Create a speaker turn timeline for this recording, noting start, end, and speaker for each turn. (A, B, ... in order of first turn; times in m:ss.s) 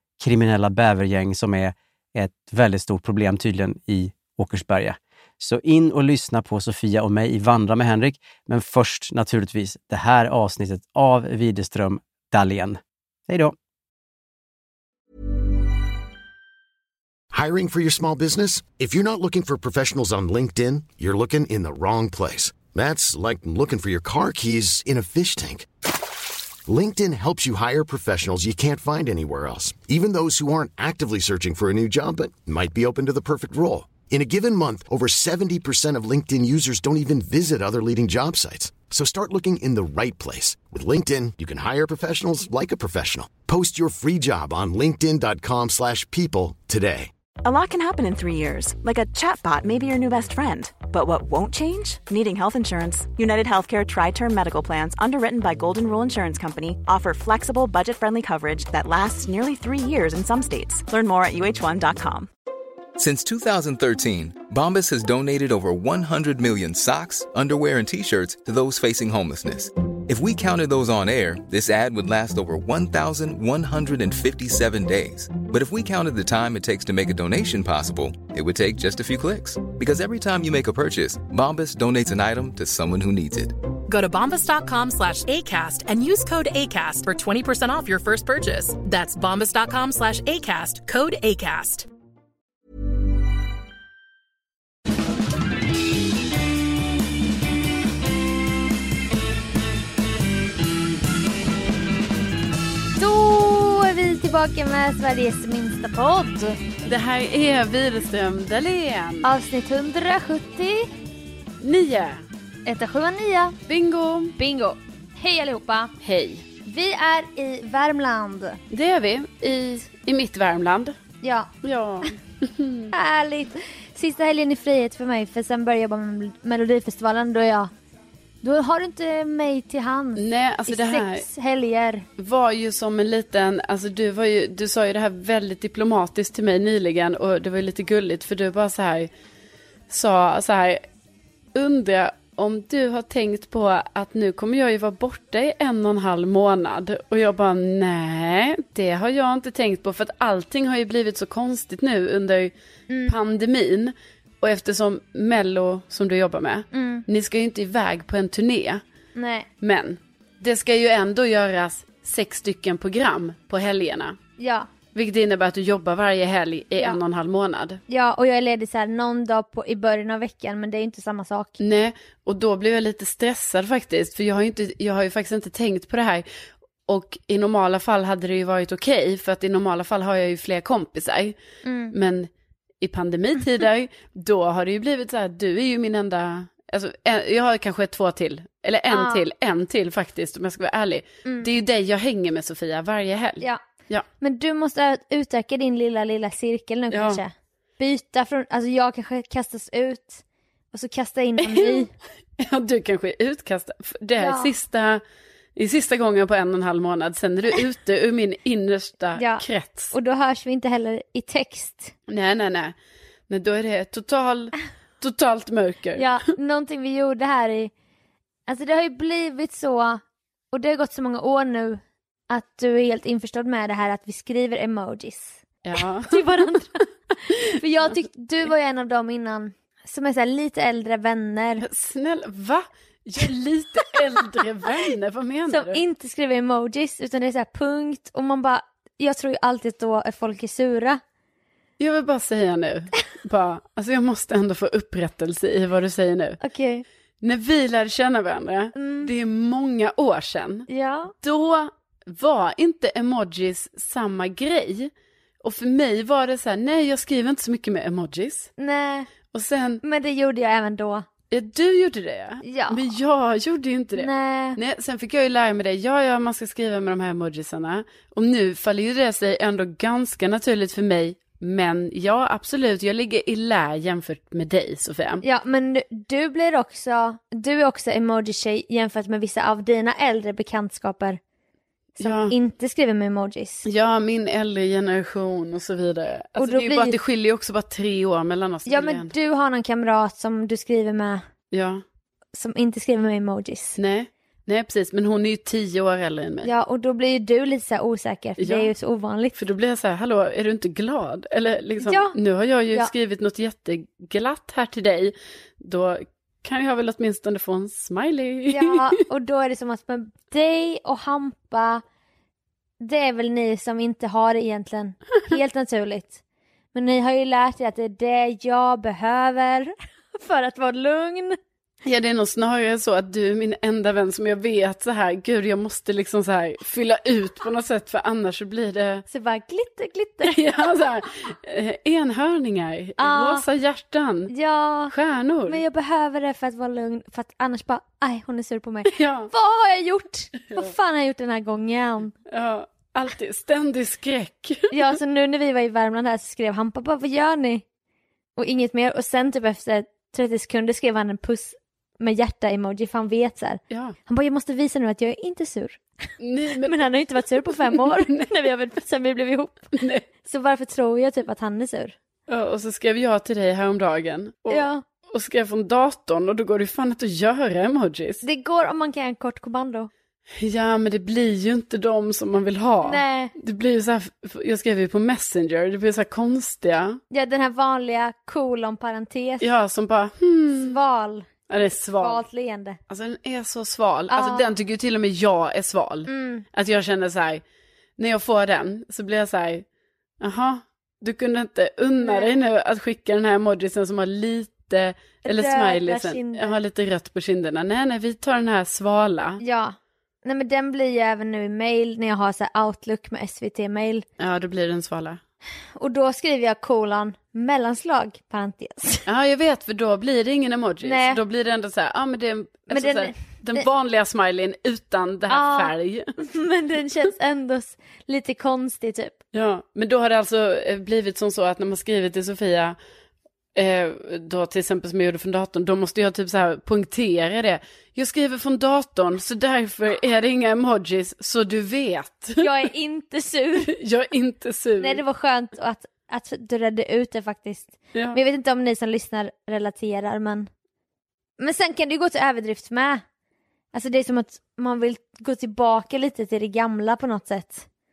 0:00.2-0:13.6 A
0:17.3-0:26.1 B
0:26.6-0:47.1 B
0:47.4-1:02.3 C
1:03.0-1:23.6 D
1:23.9-1:31.9 E
1:43.0-1:46.6 F
1:46.8-1:49.3 G
1:49.2-1:50.9 F
1:51.6-1:52.2 G
1:52.7-1:53.6 F
1:53.7-1:54.4 G
1:54.4-1:55.9 F
1:56.0-1:56.5 G
1:56.6-1:58.6 F
1:58.7-2:01.0 G
2:01.2-2:01.5 F
2:01.6-2:02.9 G
2:02.9-2:07.7 F
2:08.4-2:12.1 F
2:10.2-2:11.2 G
2:12.2-2:19.1 G
2:19.9-2:20.8 G
2:21.5-2:32.5 G
2:33.1-2:38.8 G
2:36.7-2:37.0 F
2:39.2-2:39.5 F
2:39.6-2:44.2 G
2:44.4-2:44.7 F
2:44.9-2:47.8 G
2:47.9-2:51.5 F
2:51.6-2:56.2 G
2:56.9-3:01.4 G
3:01.6-3:01.9 F
3:01.9-3:02.3 G
3:02.8-3:14.1 G
3:08.9-3:09.2 F
3:11.2-3:11.5 F
3:14.2-3:21.9 F
3:16.9-3:17.2 G
3:21.4-3:21.9 G
3:22.4-3:25.0 G
3:24.2-3:24.5 F
3:25.6-3:29.9 G
3:29.2-3:31.9 F
3:32.1-3:32.8 G
3:33.3-3:36.1 G
3:36.0-3:37.7 F
3:38.5-3:40.0 F
3:40.5-3:51.7 F
3:45.6-3:46.2 G
3:51.6-3:55.8 G
3:55.5-4:01.0 F
4:01.8-4:06.4 G
4:06.4-4:06.8 F
4:07.2-4:10.7 G
4:08.8-4:09.1 F
4:10.7-4:11.1 F
4:11.2-4:14.9 G
4:15.4-4:18.5 G
4:18.6-4:19.1 F
4:19.3-4:19.8 G
4:19.8-4:21.1 F
4:21.3-4:35.2 G
4:22.4-4:22.8 F
4:24.0-4:24.6 F
4:35.2-4:41.2 F
4:42.0-4:43.6 F
4:42.0-4:42.3 G
4:43.6-4:49.1 G
4:46.4-4:47.0 F
4:48.6-4:51.2 F
4:51.5-4:51.8 G
4:52.3-4:53.8 F
4:53.8-4:56.5 G
4:56.4-4:59.3 F
4:58.4-4:58.7 G
4:59.4-5:08.9 G
5:01.8-5:02.1 F
5:08.5-5:11.8 F
5:12.8-5:16.2 F
5:16.7-5:21.4 F
5:21.8-5:29.1 G
5:29.1-5:30.4 F
5:30.2-5:34.3 G
5:33.0-5:33.4 F
5:34.3-5:34.9 F
5:34.9-5:35.6 G
5:35.5-5:42.1 F
5:38.9-5:39.3 G
5:42.3-5:45.0 G
5:44.7-5:47.6 F
5:48.4-5:55.8 F
5:53.7-5:54.0 G
5:56.2-5:56.8 G
5:56.6-5:59.7 F
5:57.4-5:58.4 G
5:59.8-6:00.0 G
6:00.2-6:01.9 F
6:02.3-6:08.2 G
6:04.5-6:04.8 F
6:08.2-6:09.9 F
6:10.4-6:17.0 G
6:12.8-6:13.3 F
6:17.1-6:19.4 F
6:19.4-6:20.8 G
6:20.5-6:21.3 F
6:21.5-6:22.2 G
6:22.0-6:22.8 F
6:22.9-6:27.4 G
6:24.1-6:24.5 F
6:26.1-6:26.4 F
6:28.0-6:29.6 G
6:30.2-6:39.4 G
6:32.0-6:32.3 F
6:35.2-6:36.6 F
6:39.4-6:44.1 F
6:44.2-6:45.2 G
6:45.8-6:49.1 F
6:49.1-6:56.1 G
6:50.8-6:51.2 F
6:52.7-6:53.6 F
6:55.3-6:59.2 F
6:59.3-7:02.8 G
7:03.6-7:12.5 G
7:12.4-7:13.7 F
7:13.7-7:15.0 G
7:14.8-7:20.5 F
7:17.9-7:18.2 G
7:21.4-7:23.0 F
7:23.7-7:27.6 F